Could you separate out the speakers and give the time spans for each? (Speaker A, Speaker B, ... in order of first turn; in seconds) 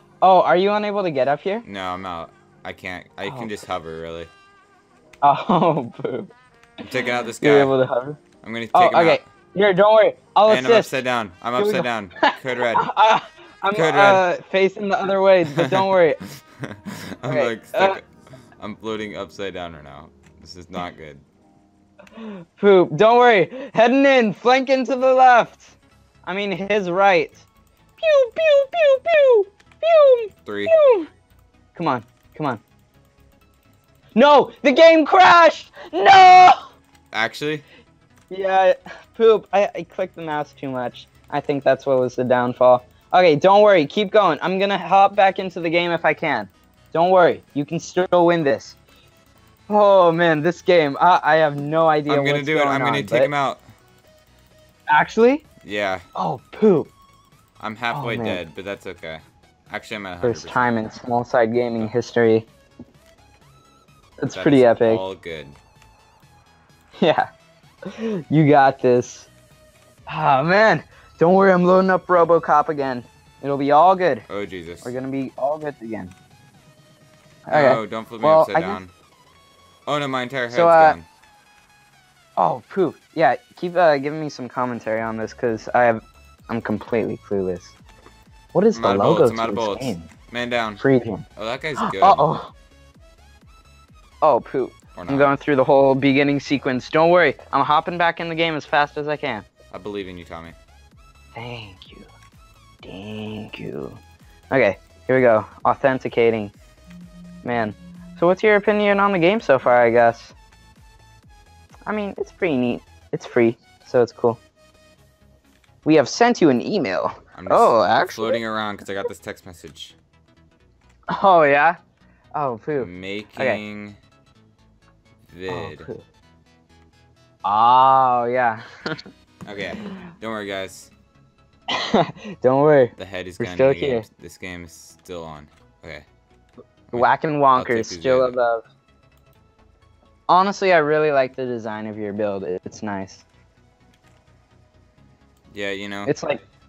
Speaker A: 0.2-1.6, 3.2-3.5, 5.2-6.3, 7.4-8.2, 8.7-10.9, 11.6-16.2, 17.2-18.0, 22.1-27.4, 28.0-31.1, 31.7-32.6, 34.1-36.7, 38.3-48.8, 49.7-53.3, 54.9-55.4, 56.1-56.9, 57.9-58.4, 60.2-62.5, 64.2-65.0, 67.0-67.3, 67.8-69.3, 70.1-74.2, 74.8-76.1, 77.5-78.8, 80.5-81.0, 82.4-87.7, 88.5-90.1, 90.8-91.2, 91.8-92.5, 94.2-99.4, 101.3-102.1, 102.8-106.5, 107.4-110.3, 111.9-114.4, 115.8-118.4, 121.1-121.8, 122.3-123.6, 125.5-126.0, 127.4-129.1, 131.7-134.0, 136.9-138.6, 140.3-143.2, 146.1-146.4
Speaker B: 1.6-4.3, 6.8-7.7, 8.4-9.2, 10.5-12.9, 13.7-14.2, 15.5-21.2, 30.4-30.8, 37.1-37.6, 52.1-53.6, 55.6-56.0, 57.6-60.8, 64.3-65.6, 74.3-74.9, 77.5-78.9, 79.8-81.1, 88.8-90.8, 91.3-92.3, 94.9-95.3, 99.7-100.5, 117.3-120.0, 122.8-124.0, 125.3-125.9, 129.4-130.9, 132.9-136.0, 136.9-138.4, 145.5-146.1